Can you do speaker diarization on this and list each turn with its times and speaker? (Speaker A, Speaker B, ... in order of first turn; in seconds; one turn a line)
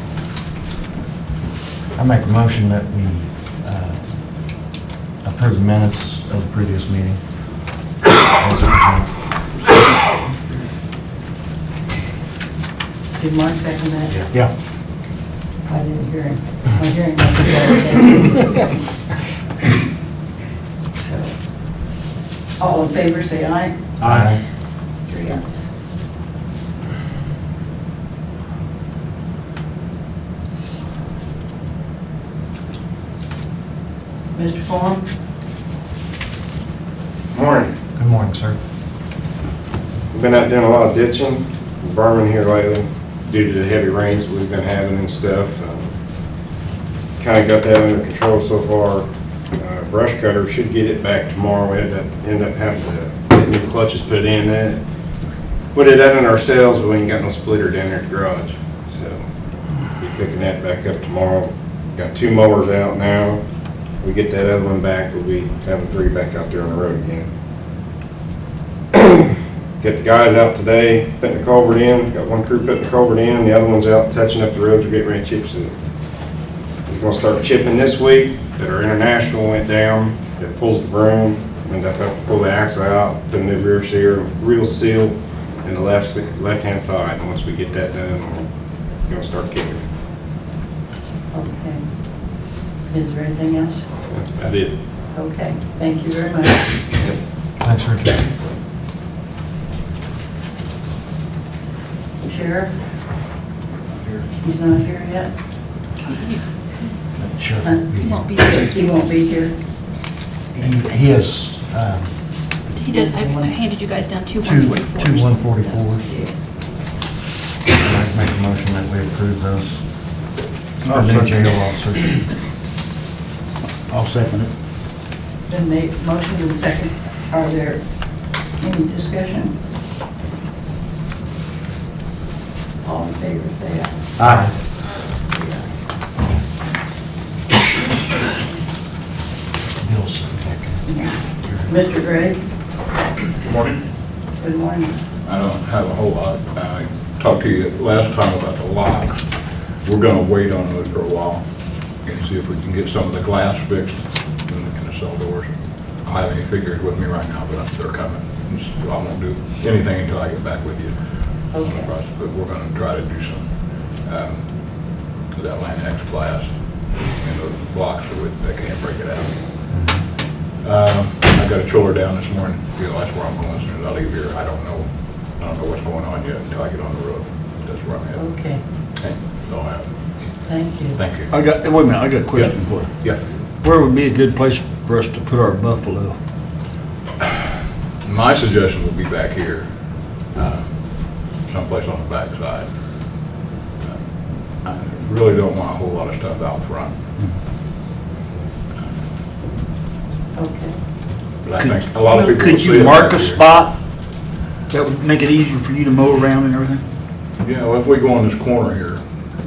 Speaker A: 1.9-4.0
Speaker A: 5.2-7.2
Speaker A: 8.2-9.2
Speaker B: 13.2-14.2
Speaker B: 15.6-18.7
Speaker B: 21.0-22.0
Speaker B: 22.6-23.8
Speaker A: 24.0-24.4
Speaker B: 24.9-25.6
Speaker B: 34.3-35.0
Speaker C: 37.3-37.7
Speaker A: 38.0-38.6
Speaker C: 40.1-45.9
Speaker C: 47.2-49.1
Speaker C: 49.6-54.8
Speaker C: 55.7-59.2
Speaker C: 59.9-63.4
Speaker C: 64.0-67.3
Speaker C: 68.9-75.7
Speaker C: 76.9-88.5
Speaker C: 89.1-89.8
Speaker B: 91.3-91.9
Speaker B: 92.9-93.8
Speaker C: 94.1-94.7
Speaker B: 95.1-96.7
Speaker A: 97.6-98.3
Speaker B: 102.2-102.8
Speaker B: 104.3-105.3
Speaker D: 106.1-106.4
Speaker A: 107.1-108.3
Speaker D: 108.0-109.1
Speaker B: 108.5-109.6
Speaker A: 110.5-112.2
Speaker D: 112.7-115.3
Speaker B: 112.8-113.6
Speaker A: 114.4-116.2
Speaker B: 115.7-116.5
Speaker A: 117.7-119.9
Speaker E: 120.8-121.5
Speaker A: 120.8-122.2
Speaker E: 123.9-124.5
Speaker B: 125.5-128.0
Speaker B: 128.5-129.6
Speaker B: 132.8-133.9
Speaker E: 134.2-134.5
Speaker A: 134.2-134.5
Speaker B: 135.3-135.9
Speaker A: 139.8-141.8
Speaker B: 140.9-142.4
Speaker F: 143.4-143.8
Speaker B: 144.4-144.9
Speaker F: 145.2-149.3
Speaker F: 149.8-169.8
Speaker B: 161.5-161.9
Speaker F: 170.6-179.9
Speaker B: 178.2-178.6
Speaker B: 180.4-181.0
Speaker F: 180.9-181.4
Speaker E: 181.3-182.9
Speaker F: 182.3-183.2
Speaker E: 183.6-186.2
Speaker F: 188.0-192.7
Speaker F: 193.8-194.1
Speaker F: 194.6-197.0
Speaker B: 200.3-200.8
Speaker F: 201.4-203.4
Speaker E: 201.6-203.8
Speaker E: 204.7-206.8
Speaker F: 207.4-209.0